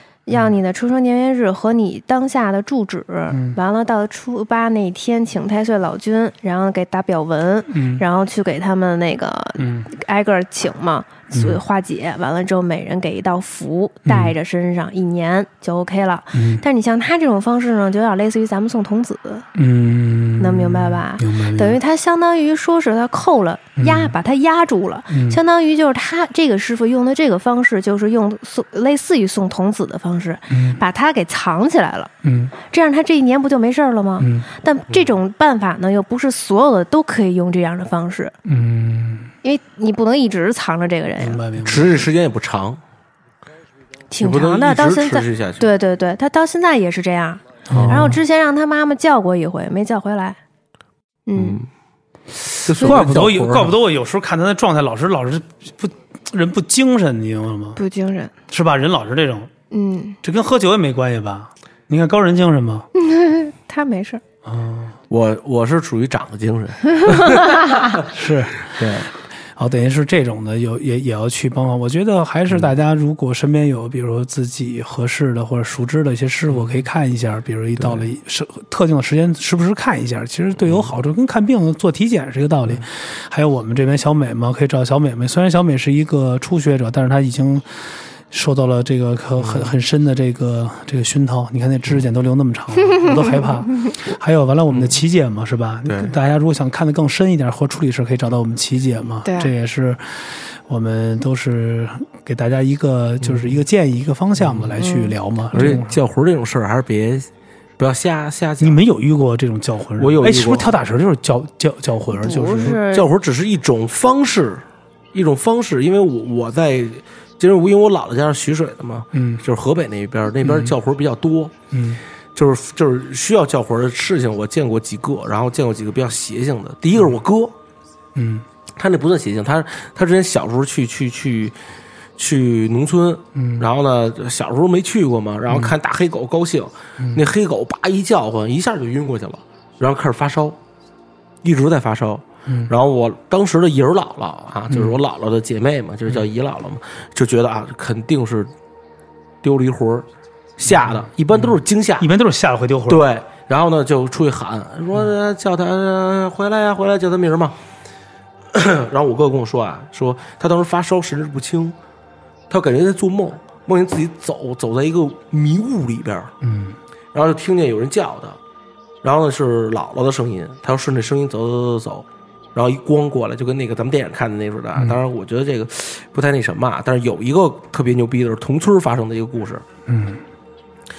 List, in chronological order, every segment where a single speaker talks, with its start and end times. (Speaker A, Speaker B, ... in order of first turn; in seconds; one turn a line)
Speaker A: 0.2-19.5
Speaker B: 3.3-3.6
Speaker B: 7.7-8.0
Speaker B: 9.6-9.9
Speaker B: 11.3-11.6
Speaker B: 14.1-14.3
Speaker B: 16.3-16.6
Speaker B: 19.5-21.8
Speaker A: 20.4-32.1
Speaker B: 23.8-24.1
Speaker B: 25.1-25.4
Speaker B: 30.5-30.8
Speaker B: 32.2-32.5
Speaker A: 32.7-38.3
Speaker B: 34.2-34.5
Speaker B: 38.4-39.3
Speaker A: 39.4-41.4
Speaker B: 41.2-42.1
Speaker C: 41.6-42.8
Speaker A: 44.1-50.4
Speaker C: 44.2-45.7
Speaker B: 47.7-48.2
Speaker C: 47.7-48.1
Speaker A: 51.3-51.6
Speaker C: 51.4-51.7
Speaker C: 52.6-53.7
Speaker B: 52.8-57.8
Speaker A: 57.8-58.3
Speaker B: 58.5-59.5
Speaker A: 59.7-60.2
Speaker B: 60.2-62.9
Speaker A: 62.9-64.2
Speaker B: 64.4-64.9
Speaker C: 65.1-68.1
Speaker A: 67.0-67.8
Speaker B: 68.0-68.9
Speaker C: 68.6-69.1
Speaker B: 69.5-106.0
Speaker C: 76.5-76.8
Speaker C: 77.8-78.0
Speaker C: 80.6-80.9
Speaker C: 89.4-89.7
Speaker C: 94.7-95.0
Speaker C: 95.8-96.1
Speaker A: 99.2-99.5
Speaker C: 103.2-103.5
Speaker C: 104.4-104.7
Speaker A: 104.8-105.1
Speaker C: 105.5-108.8
Speaker B: 108.6-112.8
Speaker C: 110.0-110.7
Speaker A: 112.1-113.1
Speaker C: 112.6-114.6
Speaker C: 115.1-121.5
Speaker B: 119.1-119.4
Speaker B: 120.4-120.7
Speaker B: 121.7-122.0
Speaker C: 122.3-127.5
Speaker B: 128.1-128.4
Speaker C: 128.8-131.5
Speaker C: 132.2-140.6
Speaker B: 133.3-133.7
Speaker B: 135.5-135.7
Speaker C: 141.4-148.5
Speaker B: 142.5-142.7
Speaker B: 144.7-145.0
Speaker C: 149.4-150.1
Speaker C: 150.6-152.1
Speaker B: 150.7-153.0
Speaker C: 152.9-157.6
Speaker C: 158.5-161.8
Speaker C: 162.5-166.3
Speaker B: 166.4-166.8
Speaker C: 167.1-168.4
Speaker C: 169.0-179.6
Speaker B: 179.9-180.2